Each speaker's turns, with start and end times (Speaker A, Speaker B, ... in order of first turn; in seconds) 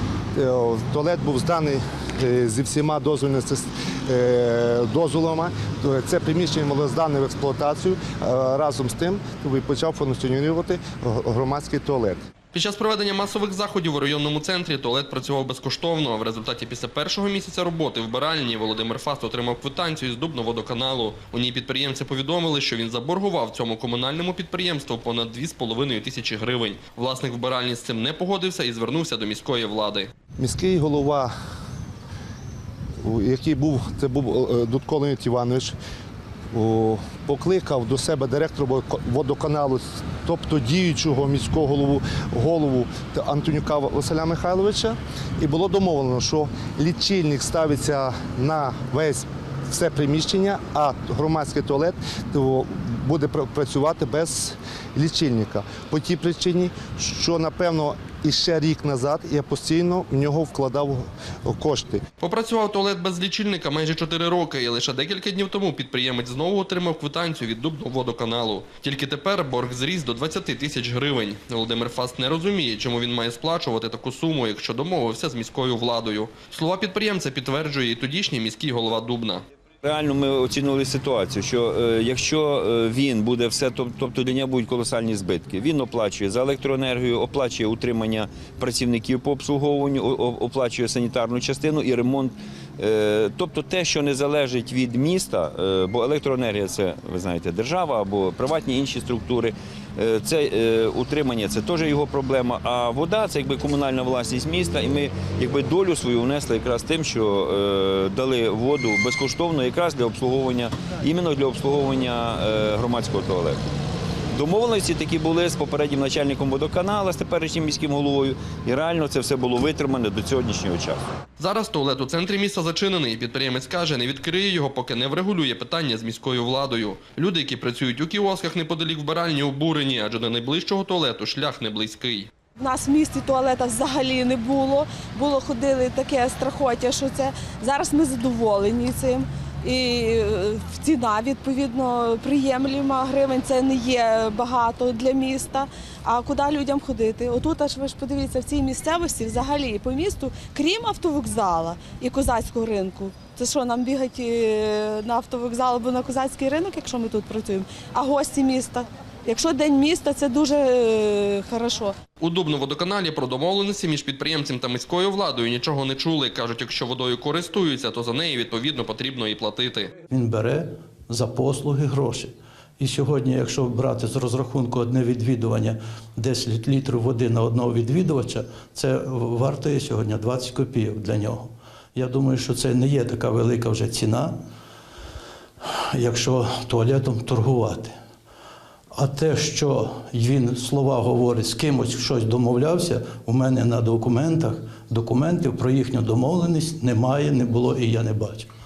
Speaker A: 0.4-12.2, 30.4-31.3, 33.0-35.7, 36.5-62.0
Speaker B: 12.5-30.1, 62.2-79.4, 121.4-132.3, 162.2-169.9
Speaker C: 79.8-113.6, 114.3-121.0
Speaker D: 132.6-161.9
Speaker E: 170.1-184.3, 185.9-187.9, 188.9-198.5